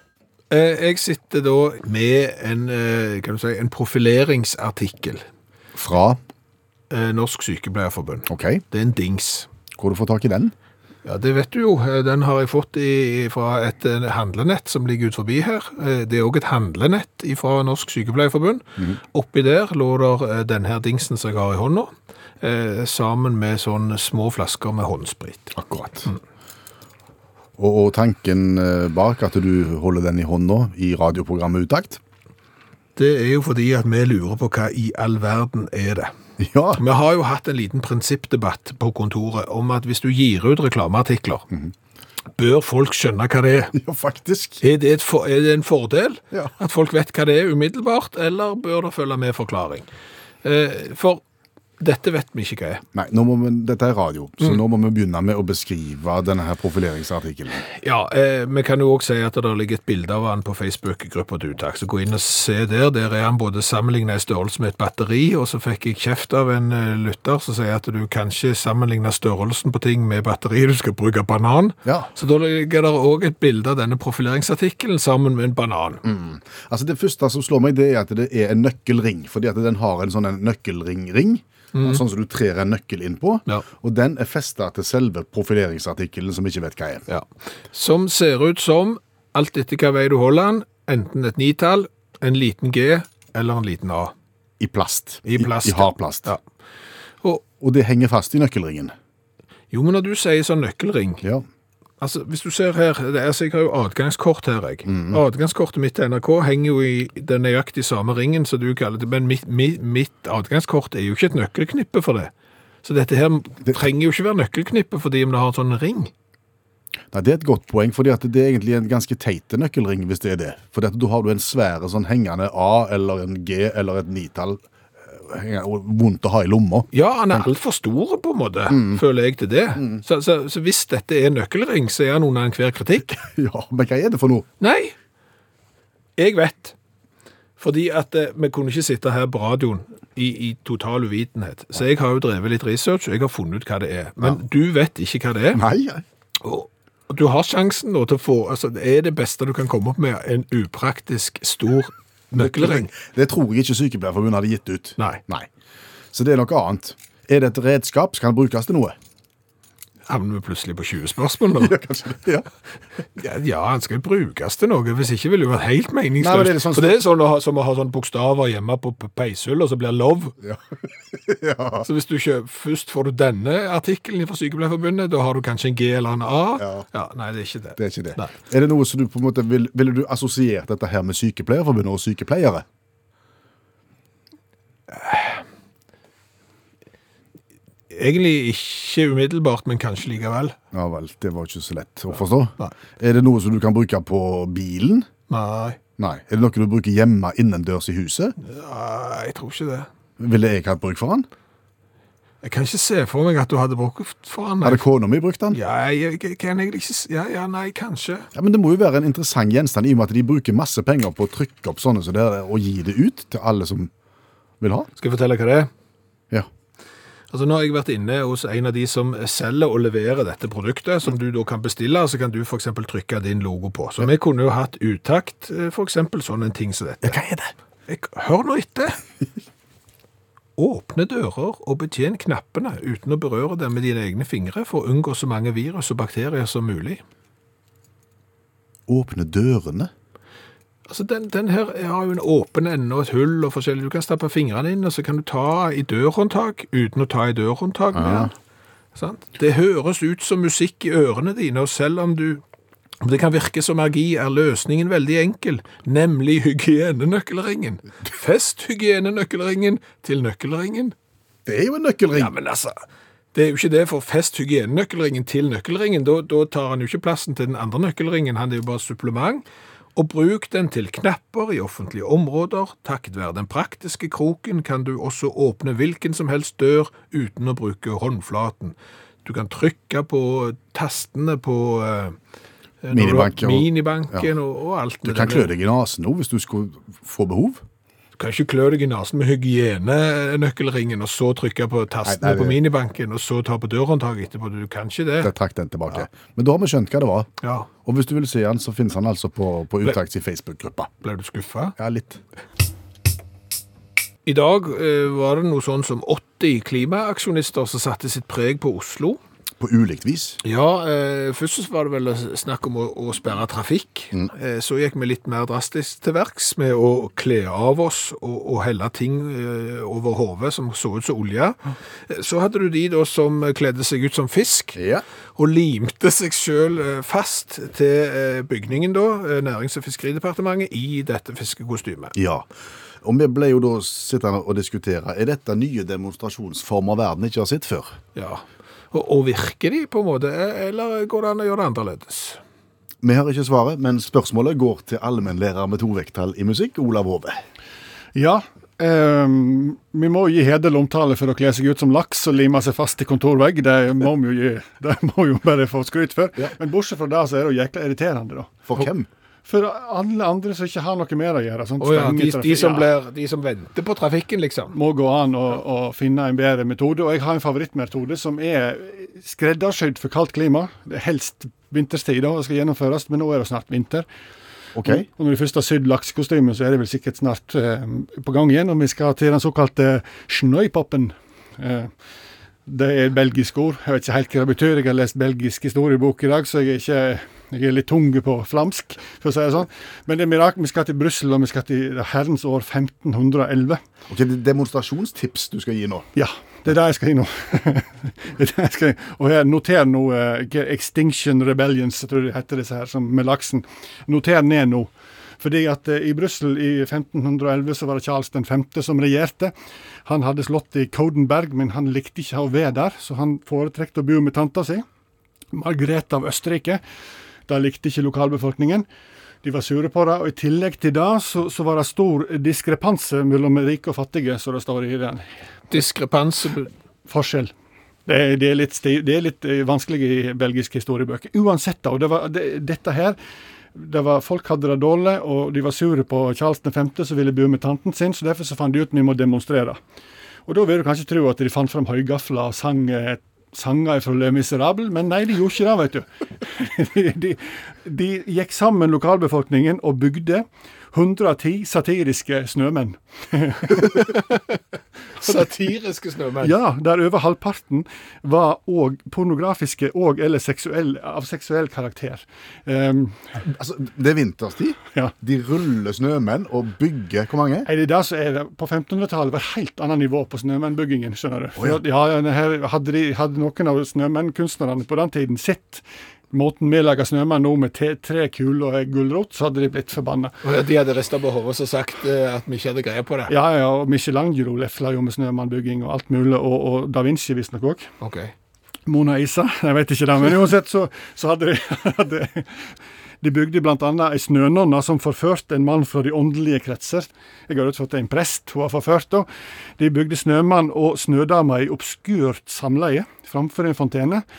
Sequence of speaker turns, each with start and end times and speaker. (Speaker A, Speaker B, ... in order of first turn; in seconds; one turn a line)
Speaker A: 0.5-5.2
Speaker B: 5.8-6.2
Speaker A: 6.9-9.5
Speaker B: 8.3-8.6
Speaker B: 9.8-10.5
Speaker A: 11.0-25.5
Speaker B: 25.5-26.1
Speaker B: 27.6-32.0
Speaker A: 33.0-36.1
Speaker B: 36.4-36.8
Speaker A: 36.8-41.5
Speaker A: 42.4-43.7
Speaker B: 43.7-44.6
Speaker A: 44.6-49.9
Speaker A: 50.4-51.2
Speaker A: 51.8-52.8
Speaker B: 52.9-57.6
Speaker A: 57.7-76.0
Speaker B: 71.8-72.1
Speaker B: 76.0-87.0
Speaker A: 81.7-82.0
Speaker A: 87.1-94.1
Speaker B: 94.6-96.3
Speaker A: 95.2-96.4
Speaker B: 97.5-98.9
Speaker A: 99.7-101.2
Speaker A: 102.0-112.3
Speaker B: 104.9-105.2
Speaker A: 112.8-116.1
Speaker B: 117.1-127.5
Speaker A: 126.9-133.1
Speaker B: 128.7-129.0
Speaker B: 129.8-130.0
Speaker B: 133.1-134.5
Speaker A: 134.6-134.9
Speaker A: 136.2-136.8
Speaker A: 137.6-145.6
Speaker B: 145.5-146.0
Speaker A: 146.4-152.9
Speaker B: 152.3-155.5
Speaker B: 156.1-158.9
Speaker A: 160.1-161.8
Speaker B: 161.6-162.5
Speaker A: 163.2-170.3
Speaker B: 166.2-166.9
Speaker B: 170.4-171.9
Speaker A: 171.8-178.4
Speaker B: 176.6-176.8
Speaker B: 177.8-182.6
Speaker A: 184.9-185.4
Speaker A: 187.9-190.6
Speaker B: 190.7-195.1
Speaker A: 195.3-195.8
Speaker B: 196.0-198.3
Speaker A: 198.4-199.9
Speaker B: 200.2-201.3
Speaker A: 202.4-204.8
Speaker B: 204.6-205.6
Speaker A: 205.5-208.3
Speaker B: 208.3-213.9
Speaker B: 214.6-214.9
Speaker A: 215.0-215.7
Speaker A: 217.3-227.2
Speaker B: 227.0-227.5
Speaker A: 227.9-229.0
Speaker A: 230.6-237.0
Speaker B: 238.9-239.9
Speaker A: 240.9-248.3
Speaker B: 247.9-248.3
Speaker A: 248.9-252.4
Speaker A: 253.0-260.9
Speaker B: 261.4-262.3
Speaker A: 262.1-262.8
Speaker A: 263.3-269.4
Speaker A: 269.9-282.1
Speaker A: 282.8-285.5
Speaker B: 282.9-284.3
Speaker B: 285.0-287.6
Speaker A: 288.2-295.3
Speaker B: 292.0-292.6
Speaker B: 295.2-297.3
Speaker A: 297.4-297.7
Speaker B: 297.8-300.9
Speaker A: 301.0-301.7
Speaker B: 301.8-302.2
Speaker A: 304.2-309.2
Speaker B: 309.6-310.4
Speaker A: 310.4-324.8
Speaker B: 324.8-325.0
Speaker A: 325.4-332.1
Speaker B: 332.1-332.5
Speaker B: 333.0-338.0
Speaker A: 338.1-342.4
Speaker B: 343.0-347.4
Speaker C: 348.1-358.5
Speaker B: 358.6-359.1
Speaker C: 359.4-362.9
Speaker A: 361.8-364.8
Speaker C: 364.7-374.0
Speaker B: 374.8-375.1
Speaker C: 374.9-381.9
Speaker C: 382.7-393.8
Speaker B: 394.1-396.1
Speaker C: 396.1-409.5
Speaker C: 410.1-414.8
Speaker C: 415.5-416.8
Speaker C: 417.5-418.9
Speaker C: 419.4-425.2
Speaker A: 425.7-426.7
Speaker C: 427.1-427.5
Speaker C: 428.1-433.2
Speaker C: 433.7-439.8
Speaker C: 440.5-454.2
Speaker A: 453.8-454.2
Speaker A: 455.2-456.5
Speaker C: 456.4-463.2
Speaker B: 463.4-467.7
Speaker C: 467.6-480.3
Speaker A: 480.4-483.3
Speaker C: 483.3-487.9
Speaker A: 488.0-488.3
Speaker C: 488.9-492.7
Speaker C: 493.2-499.3
Speaker C: 499.8-504.2